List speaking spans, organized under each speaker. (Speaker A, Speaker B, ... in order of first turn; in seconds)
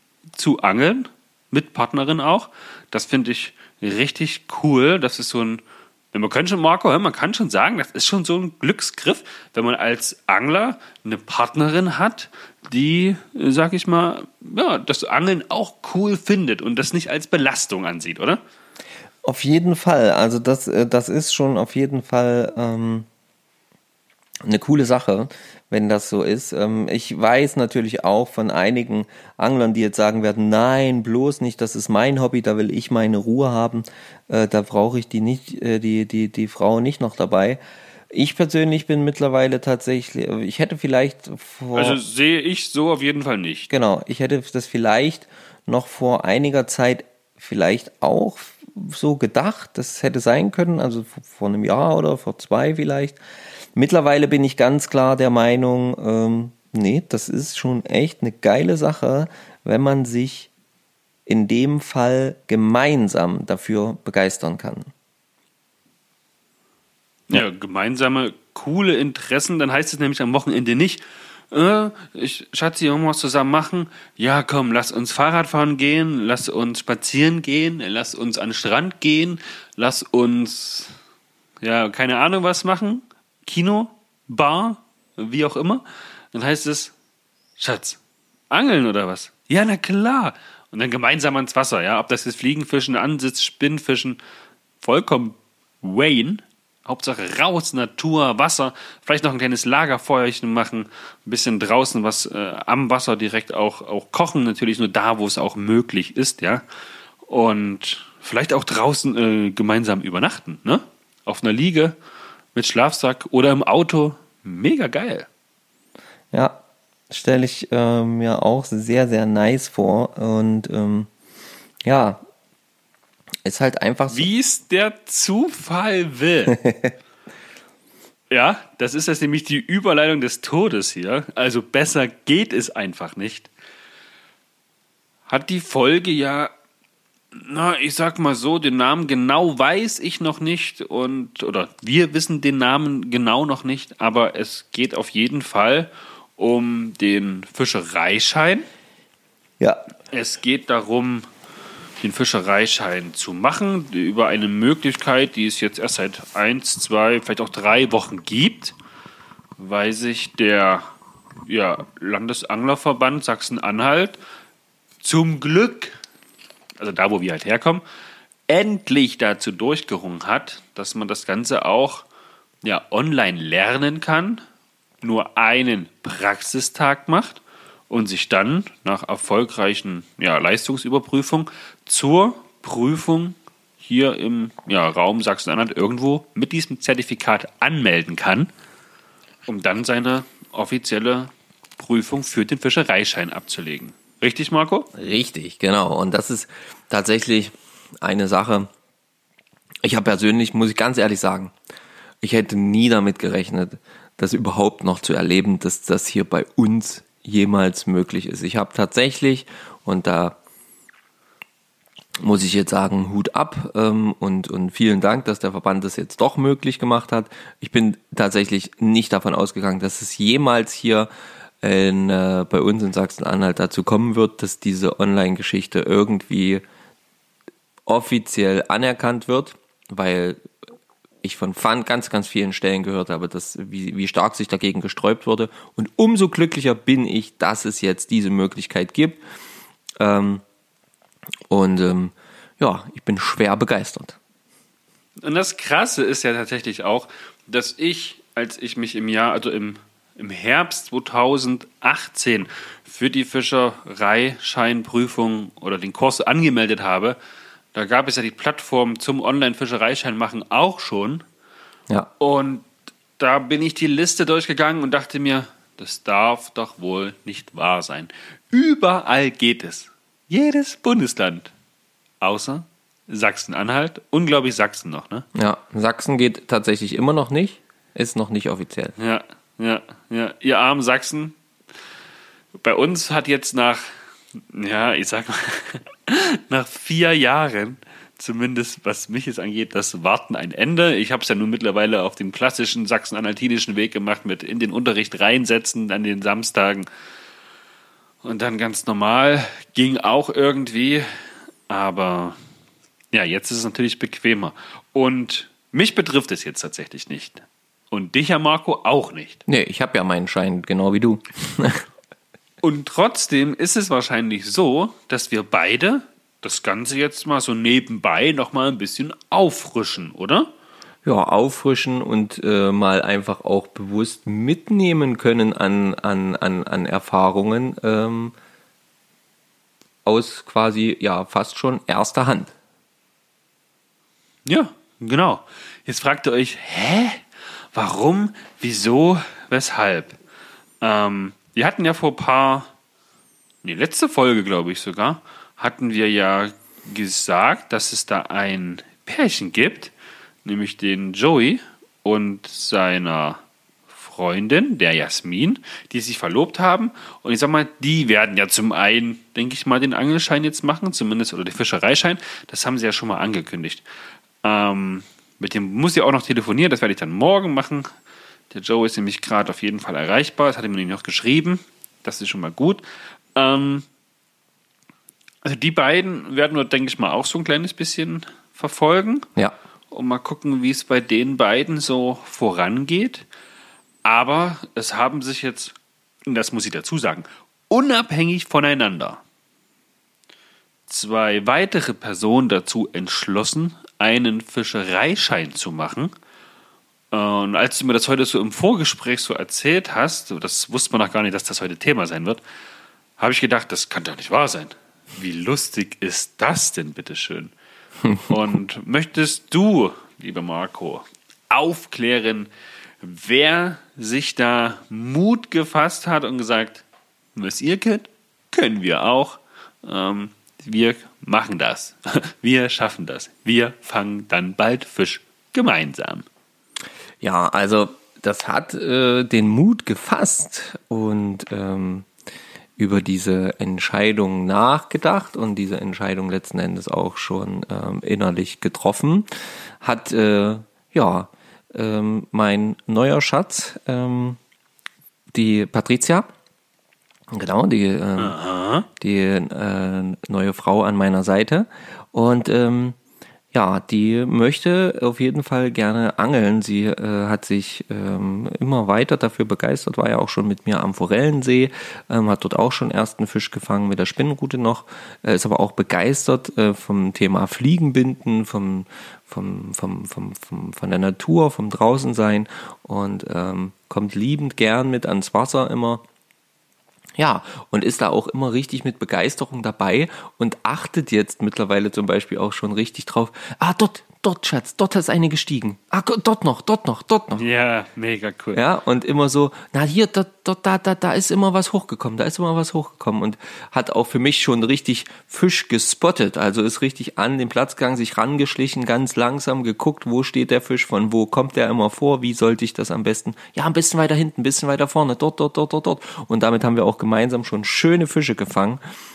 Speaker A: 0.4-5.6, 6.1-18.4, 41.7-43.7, 67.3-81.0, 81.6-86.9, 87.6-88.0, 88.5-94.2, 94.8-106.6, 107.2-112.0, 112.5-115.3, 124.1-126.5, 128.3-133.5, 135.3-136.5, 137.3-148.7, 150.1-151.3, 152.0-158.7, 159.6-160.9, 161.4-164.2, 165.0-165.9, 166.8-167.8, 168.5-172.1, 172.6-174.4, 175.0-188.5, 189.5-194.9, 245.2-257.2, 257.7-261.2, 262.2-262.7, 263.2-271.5, 272.2-275.2, 279.0-281.4, 282.6-283.9, 284.5-296.9, 298.2-301.1, 301.7-302.4, 303.1-309.4, 312.6-320.5, 334.4-340.2, 340.8-342.7, 343.6-349.9, 350.4-353.4, 353.9-363.8, 364.4-367.9, 368.5-372.8, 373.3-373.9, 375.4-379.3, 379.9-383.2, 384.0-385.7, 386.2-389.2, 390.9-396.1, 397.1-402.4, 403.2-407.5, 408.2-412.5, 413.0-416.8, 417.4-426.2, 448.2-448.9, 487.4-488.6
Speaker B: 19.2-23.1, 24.4-37.6, 38.1-42.0, 43.7-53.2, 53.8-60.5, 61.2-64.9, 117.1-121.1, 121.8-122.2, 123.4-124.3, 126.5-126.9, 194.9-198.7, 199.8-201.5, 202.2-210.4, 212.2-221.1, 221.6-226.6, 227.8-230.5, 231.2-239.2, 240.0-240.4, 241.5-244.2, 275.3-278.9, 309.5-311.8, 321.0-328.3, 330.0-332.5, 427.2-432.1, 432.8-439.3, 439.8-444.4, 445.3-446.3, 447.3-448.4, 448.9-453.0, 453.5-476.0, 477.2-487.4, 488.5-508.8